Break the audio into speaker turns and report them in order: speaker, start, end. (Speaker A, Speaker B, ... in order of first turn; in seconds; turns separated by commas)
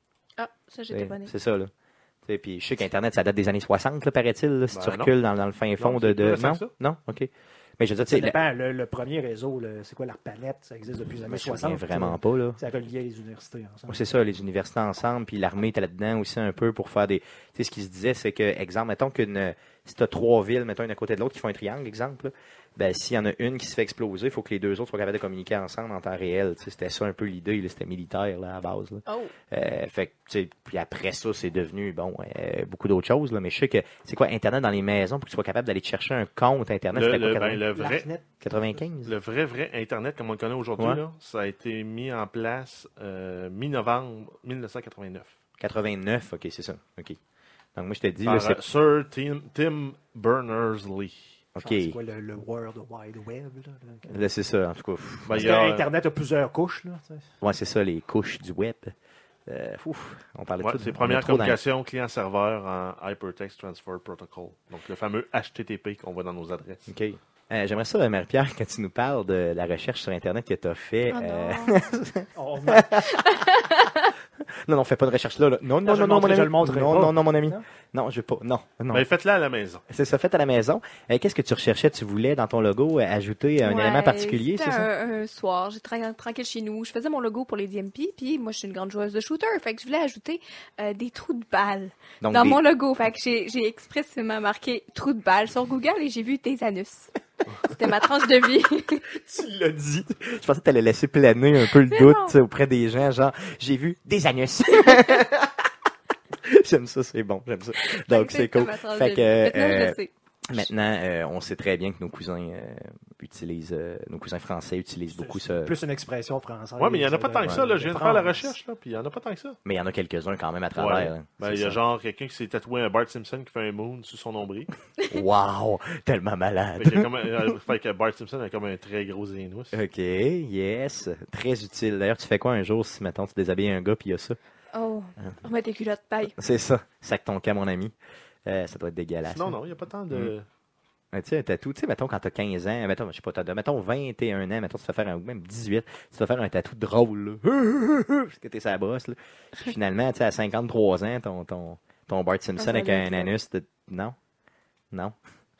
Speaker A: 0.4-1.3, Speaker B: 0.9-1.7, Speaker B: 2.3-8.4, Speaker C: 4.7-5.1, Speaker C: 5.8-6.7, Speaker D: 8.1-14.0, Speaker B: 11.2-12.6, Speaker B: 13.9-37.7, Speaker A: 29.1-29.4, Speaker C: 36.9-38.1, Speaker D: 37.7-38.2, Speaker B: 38.4-39.1, Speaker C: 39.0-45.3, Speaker B: 45.6-47.2, Speaker B: 47.8-48.6, Speaker C: 48.2-51.2, Speaker B: 51.5-52.0, Speaker D: 51.6-54.2, Speaker B: 54.1-55.6, Speaker C: 55.3-55.9, Speaker D: 55.3-57.3, Speaker B: 57.4-58.9, Speaker B: 59.5-61.6, Speaker C: 60.6-66.9, Speaker B: 66.9-73.5, Speaker A: 71.1-71.8, Speaker D: 72.3-73.0, Speaker A: 73.2-74.0, Speaker B: 74.7-79.1, Speaker D: 75.8-77.6, Speaker C: 78.9-79.8, Speaker B: 79.9-84.9, Speaker A: 83.6-97.1, Speaker B: 92.2-92.6, Speaker A: 97.7-99.1, Speaker B: 99.1-105.6, Speaker A: 101.9-102.4, Speaker B: 106.4-110.0, Speaker A: 108.1-110.1, Speaker B: 110.5-115.8, Speaker D: 115.1-118.5, Speaker C: 116.8-119.6, Speaker B: 119.7-121.8, Speaker C: 120.8-124.7, Speaker B: 125.1-127.1, Speaker C: 126.8-129.8, Speaker B: 129.7-134.4, Speaker A: 134.7-136.3, Speaker B: 136.3-137.9, Speaker B: 138.5-139.6, Speaker C: 139.2-140.5, Speaker B: 141.1-154.2, Speaker A: 152.6-153.3